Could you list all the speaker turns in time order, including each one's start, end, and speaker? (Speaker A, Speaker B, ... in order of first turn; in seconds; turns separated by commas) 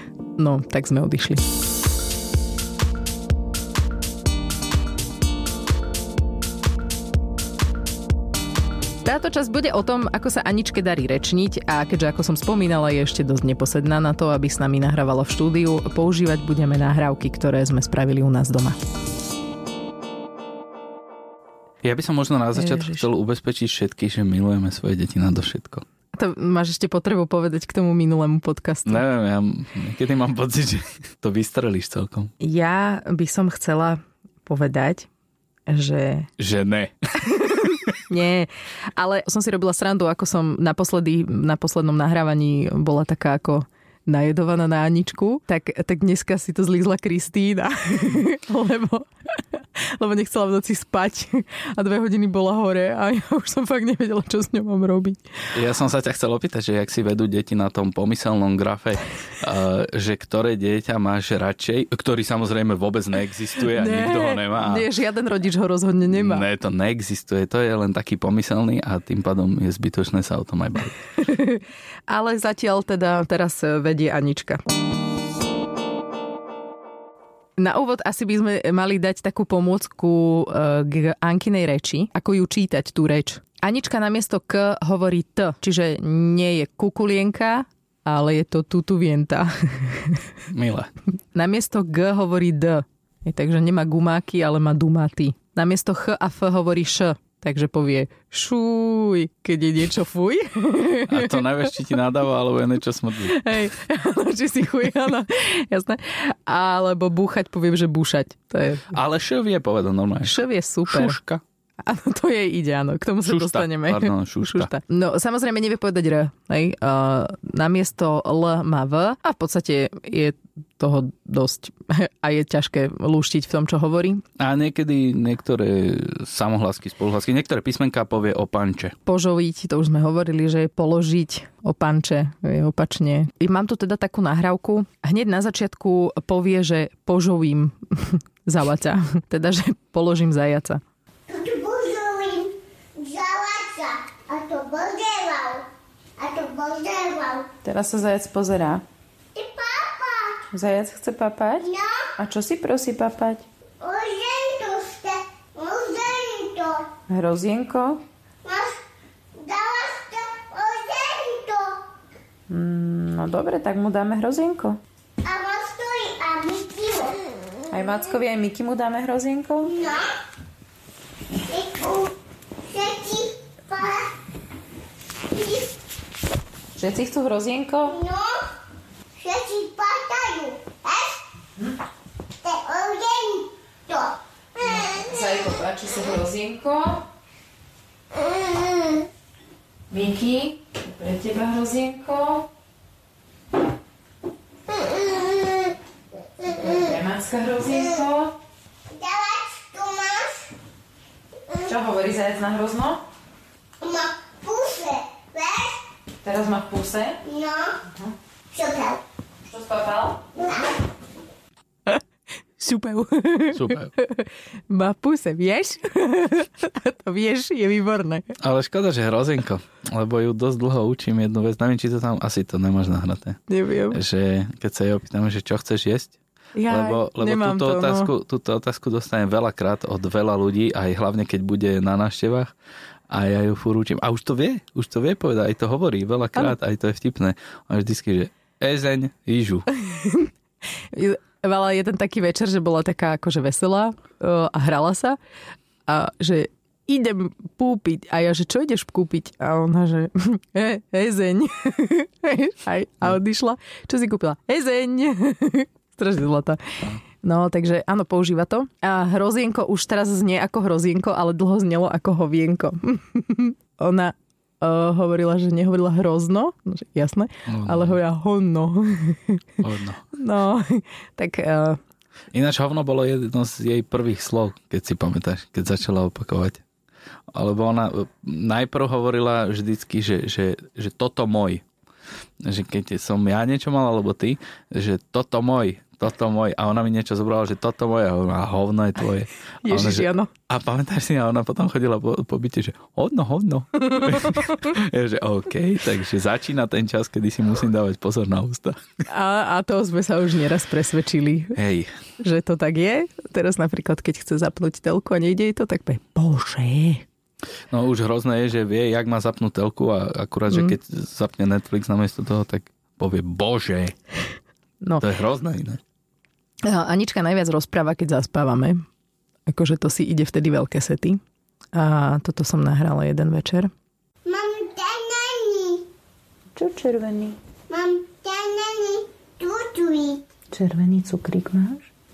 Speaker A: 0.4-1.4, Speaker A: 9.1-18.8, Speaker B: 21.8-25.8, Speaker A: 22.6-23.1, Speaker A: 26.1-29.0, Speaker B: 28.9-32.3, Speaker A: 32.4-35.1, Speaker A: 35.7-36.3, Speaker B: 36.4-36.9, Speaker A: 37.3-55.2, Speaker B: 55.5-64.9, Speaker A: 63.7-66.5, Speaker B: 66.1-71.0, Speaker A: 71.2-74.6, Speaker A: 77.6-90.2, Speaker B: 90.5-90.9, Speaker A: 91.3-101.7, Speaker B: 101.1-103.6, Speaker A: 103.3-108.9, Speaker B: 108.9-111.4, Speaker A: 110.2-111.2, Speaker A: 111.8-124.2, Speaker B: 113.3-114.7, Speaker B: 124.4-128.9, Speaker A: 129.1-140.8, Speaker C: 141.3-145.7, Speaker C: 146.2-147.5, Speaker D: 147.6-148.8, Speaker C: 149.3-150.4, Speaker D: 150.5-153.5, Speaker C: 151.6-152.1, Speaker C: 153.8-156.9, Speaker D: 157.1-158.0, Speaker C: 158.4-158.8, Speaker C: 159.3-161.8, Speaker D: 162.5-164.8, Speaker C: 165.2-167.3, Speaker D: 167.7-169.8, Speaker C: 169.6-170.1, Speaker C: 171.5-174.1, Speaker C: 175.3-175.8, Speaker D: 176.8-178.0, Speaker C: 177.8-178.5, Speaker C: 179.2-181.2, Speaker C: 182.4-185.2, Speaker D: 184.6-187.0, Speaker C: 188.1-189.1, Speaker D: 189.9-192.5, Speaker C: 194.7-195.8, Speaker C: 196.4-196.8, Speaker D: 196.5-198.3, Speaker C: 198.9-200.5, Speaker D: 201.7-203.0, Speaker C: 203.8-205.9, Speaker D: 206.2-207.2, Speaker C: 207.2-207.8, Speaker C: 208.5-209.0, Speaker D: 209.4-210.2, Speaker C: 210.4-210.6, Speaker A: 212.6-218.3, Speaker B: 213.5-213.9, Speaker B: 218.4-226.2, Speaker A: 223.5-224.0, Speaker A: 226.6-228.1, Speaker B: 226.7-232.5, Speaker B: 233.1-239.7, Speaker A: 239.7-240.3, Speaker A: 240.9-245.2, Speaker A: 245.9-269.4, Speaker B: 267.5-268.0, Speaker B: 269.6-270.0, Speaker A: 270.1-271.8, Speaker B: 272.3-276.6, Speaker B: 277.3-281.6, Speaker B: 282.4-298.8, Speaker A: 289.6-290.3, Speaker A: 293.9-294.6, Speaker A: 299.1-301.6, Speaker B: 301.6-301.9, Speaker A: 302.2-307.1, Speaker B: 307.7-313.9, Speaker A: 310.5-310.8, Speaker B: 315.0-315.8, Speaker A: 316.6-318.8, Speaker A: 319.5-321.2, Speaker A: 321.7-323.7, Speaker C: 324.2-325.9, Speaker D: 326.6-327.4, Speaker C: 327.7-330.2, Speaker D: 330.5-331.9